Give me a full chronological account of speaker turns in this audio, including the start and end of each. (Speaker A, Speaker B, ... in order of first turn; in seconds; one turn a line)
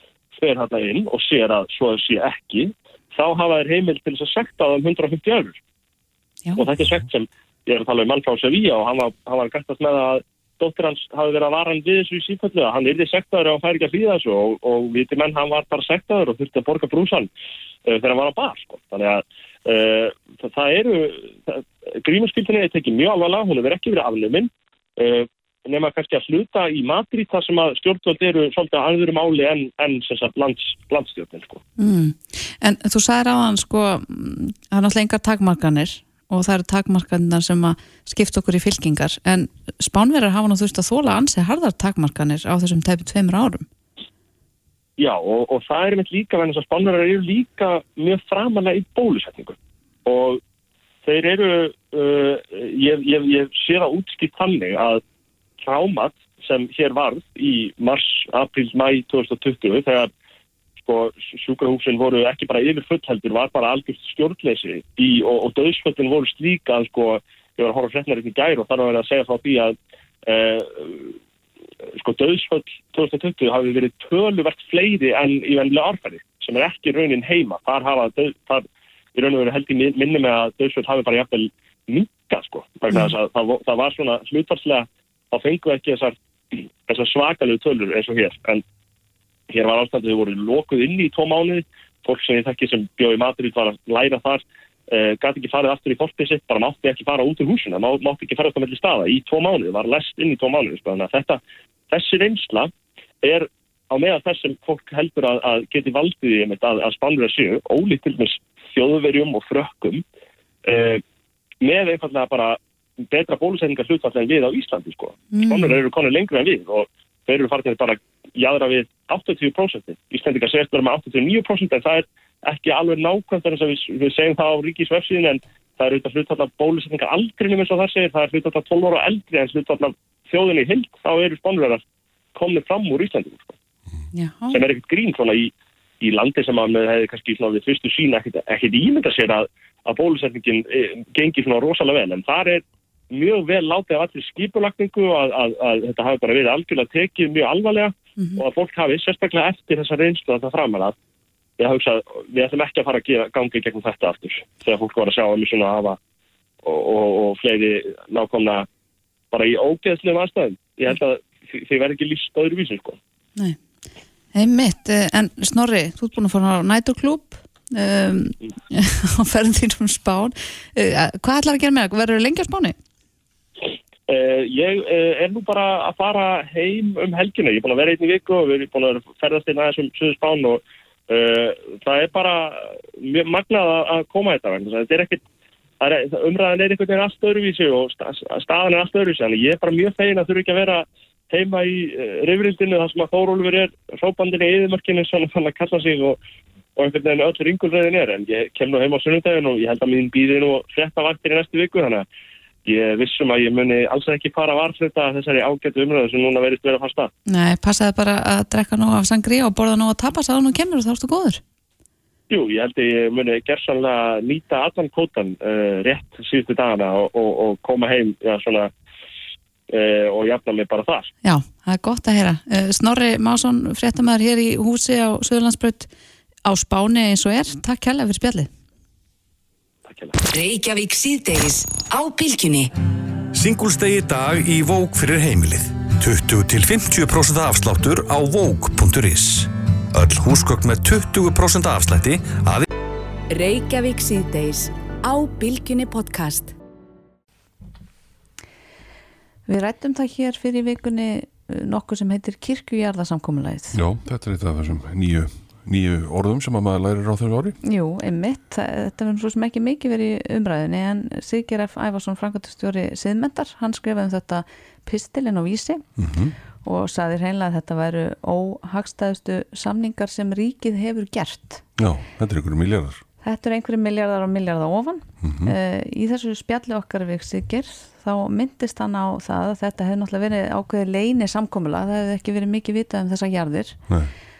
Speaker A: 0.3-5.6
Speaker A: 6.5-17.3
Speaker A: 17.9-31.6
Speaker B: 31.8-43.7
Speaker A: 45.0-50.4
Speaker A: 51.0-55.0
Speaker A: 55.6-60.1
Speaker A: 60.8-69.7
Speaker A: 70.3-71.2
Speaker A: 72.0-88.6
Speaker A: 89.5-101.4
Speaker A: 101.9-102.7
Speaker A: 103.2-110.0
Speaker A: 110.6-111.0
Speaker A: 111.6-112.6
Speaker A: 113.1-131.8
Speaker B: 115.3-115.8
Speaker A: 132.3-133.5
Speaker B: 134.1-134.6
Speaker A: 134.5-150.9
Speaker A: 151.6-156.0
Speaker A: 156.6-158.7
Speaker A: 159.3-163.0
Speaker B: 164.3-172.8
Speaker A: 174.1-185.2
Speaker A: 185.8-196.2
Speaker A: 196.8-202.1
Speaker A: 202.7-207.1
Speaker B: 207.3-211.4
Speaker A: 212.3-218.7
Speaker A: 219.7-221.1
Speaker B: 221.2-225.9
Speaker B: 226.4-228.5
Speaker A: 229.8-230.2
Speaker C: 230.3-232.7
Speaker D: 233.3-242.7
Speaker C: 243.3-246.5
Speaker B: 249.5-253.8
Speaker E: 253.7-257.6
Speaker B: 257.6-265.9
Speaker E: 266.0-266.3
Speaker B: 266.6-271.6
Speaker E: 271.8-273.0
Speaker B: 273.2-283.8
Speaker E: 275.2-275.5